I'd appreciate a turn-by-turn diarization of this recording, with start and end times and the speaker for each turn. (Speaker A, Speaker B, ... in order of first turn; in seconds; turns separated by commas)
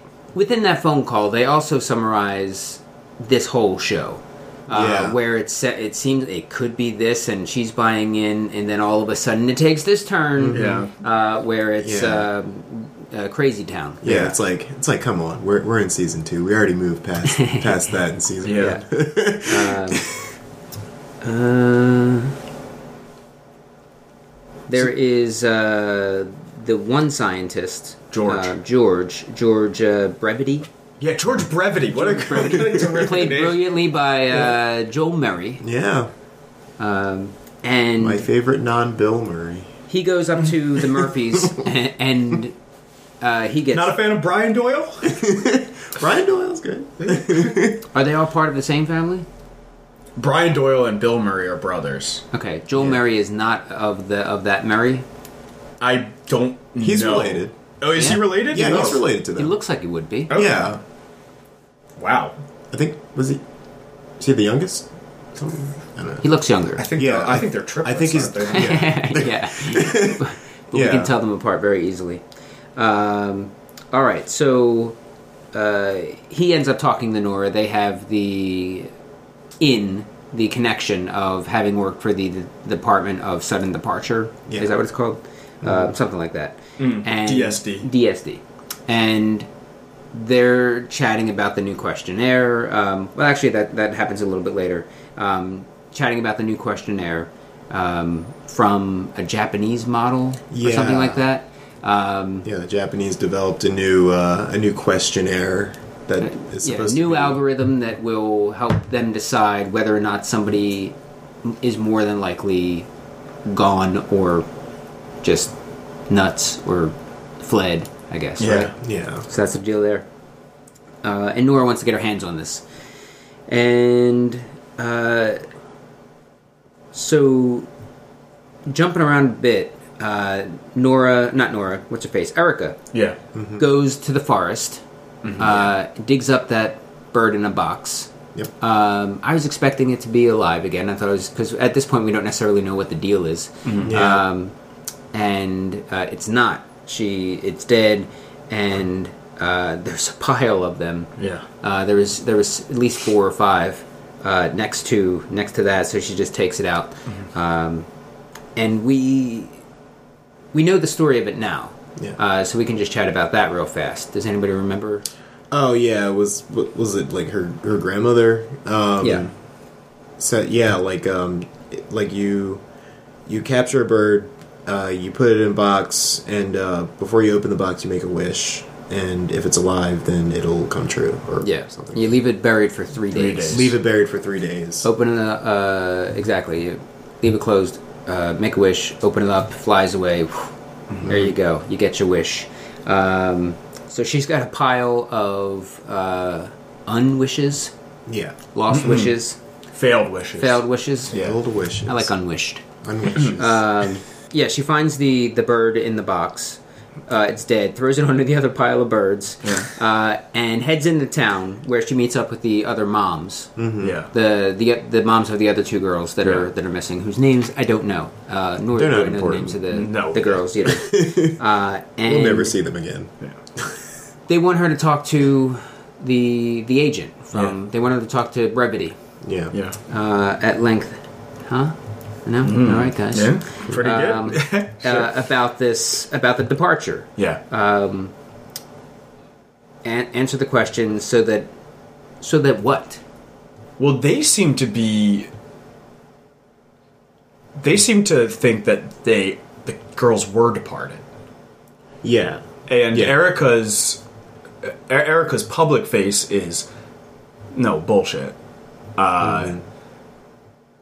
Speaker A: 0.3-14.4, Speaker B: 4.7-5.2, Speaker B: 10.4-10.8, Speaker C: 10.5-10.9, Speaker B: 11.8-12.3, Speaker B: 14.0-20.1, Speaker A: 17.3-17.7, Speaker C: 18.4-18.8, Speaker A: 18.6-20.1, Speaker A: 21.2-22.3, Speaker A: 24.7-30.7, Speaker C: 28.1-28.5, Speaker C: 31.0-33.8, Speaker A: 31.9-35.6, Speaker B: 35.6-36.1, Speaker A: 36.8-38.2, Speaker B: 38.0-39.7, Speaker A: 39.9-42.5, Speaker A: 43.2-44.0, Speaker C: 43.7-45.2, Speaker B: 45.0-47.8, Speaker C: 47.0-47.6, Speaker A: 47.9-49.2, Speaker C: 50.1-52.2, Speaker A: 52.3-55.0, Speaker C: 55.8-59.0, Speaker B: 56.8-57.5, Speaker A: 57.9-58.3, Speaker B: 58.2-59.5, Speaker A: 59.3-60.3, Speaker C: 60.3-60.8, Speaker B: 60.3-60.8, Speaker C: 62.0-62.3, Speaker B: 62.7-63.4, Speaker B: 64.2-66.3, Speaker A: 66.2-66.8, Speaker C: 66.8-68.9, Speaker B: 67.0-71.2, Speaker A: 68.5-72.2, Speaker A: 72.8-75.0, Speaker A: 75.5-78.9, Speaker A: 79.6-89.5, Speaker B: 85.6-85.9, Speaker C: 86.8-87.9, Speaker A: 90.1-102.5, Speaker B: 100.5-101.2, Speaker B: 102.4-107.4, Speaker A: 106.2-112.9, Speaker A: 113.4-114.5, Speaker A: 115.2-115.5, Speaker A: 116.1-118.7, Speaker C: 118.4-118.7, Speaker B: 118.8-119.2, Speaker A: 119.3-120.0, Speaker A: 121.0-122.6, Speaker A: 123.5-125.4, Speaker A: 126.9-127.7, Speaker A: 128.7-132.8, Speaker C: 132.9-133.2, Speaker B: 133.3-133.7, Speaker A: 133.6-134.8, Speaker C: 135.2-135.6, Speaker A: 135.4-144.5, Speaker C: 143.6-143.9, Speaker B: 143.8-144.2, Speaker A: 145.1-157.9, Speaker C: 151.2-151.4, Speaker A: 158.6-159.6, Speaker A: 160.5-165.0, Speaker B: 165.5-169.3, Speaker A: 169.0-169.3, Speaker B: 170.2-172.6, Speaker B: 173.3-182.1, Speaker A: 181.4-183.7, Speaker C: 183.1-183.7, Speaker B: 183.5-184.9, Speaker A: 184.8-190.5, Speaker A: 191.0-197.7, Speaker B: 191.1-191.3, Speaker B: 198.1-198.3, Speaker A: 198.5-199.4, Speaker C: 198.7-199.1, Speaker C: 199.7-201.4, Speaker A: 200.4-201.1, Speaker B: 201.1-202.1, Speaker A: 201.8-202.6, Speaker B: 202.8-203.7, Speaker A: 203.1-213.5, Speaker C: 209.4-209.7, Speaker B: 213.6-214.0, Speaker C: 213.8-214.1, Speaker A: 214.1-222.6, Speaker C: 216.2-216.5, Speaker B: 218.8-219.6, Speaker C: 219.7-220.4, Speaker B: 220.6-221.4, Speaker B: 222.0-223.8, Speaker A: 224.3-229.0, Speaker B: 229.2-229.6, Speaker C: 229.5-229.8, Speaker A: 229.9-238.1, Speaker C: 232.4-235.1, Speaker C: 237.2-237.4, Speaker A: 239.8-241.5, Speaker A: 242.2-243.0, Speaker C: 243.8-245.3, Speaker C: 247.6-251.0, Speaker B: 252.0-253.2, Speaker C: 252.7-254.0, Speaker C: 254.6-256.7, Speaker C: 257.5-258.4, Speaker C: 259.0-259.6, Speaker B: 259.2-259.6